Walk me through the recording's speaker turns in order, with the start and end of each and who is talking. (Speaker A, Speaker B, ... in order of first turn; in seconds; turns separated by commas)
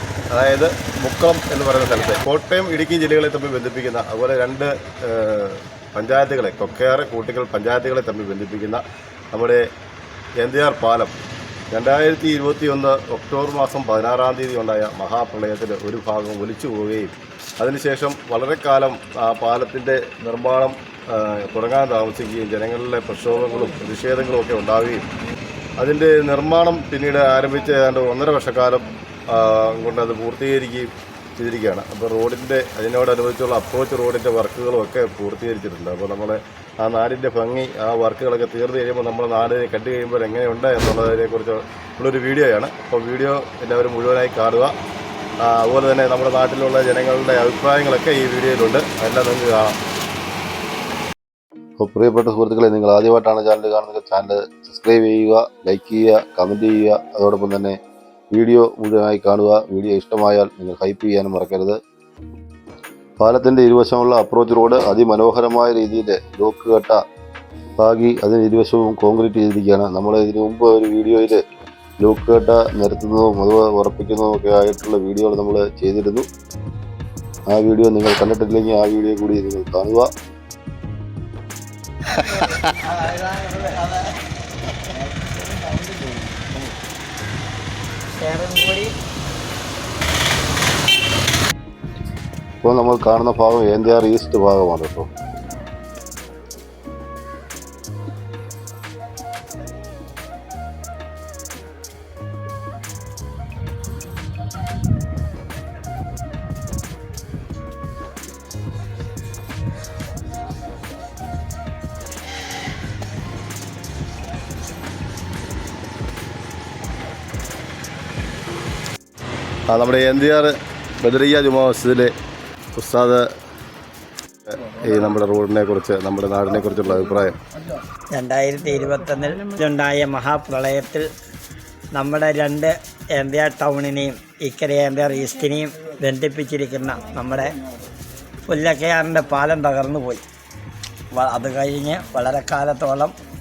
Speaker A: 0.3-9.6, Speaker A: 10.4-11.1, Speaker A: 11.7-25.1, Speaker A: 25.8-44.7, Speaker A: 45.4-49.8, Speaker B: 51.8-57.8, Speaker B: 58.3-61.8, Speaker B: 63.2-67.0, Speaker B: 67.8-71.4, Speaker B: 72.0-76.3, Speaker B: 77.5-80.1, Speaker C: 82.2-84.0, Speaker C: 84.9-86.6, Speaker C: 88.2-88.9, Speaker B: 92.6-95.1, Speaker A: 119.7-122.1, Speaker A: 122.7-123.2, Speaker A: 124.5-127.4, Speaker C: 128.1-131.1, Speaker C: 131.9-137.5, Speaker C: 138.5-140.2, Speaker C: 141.1-143.1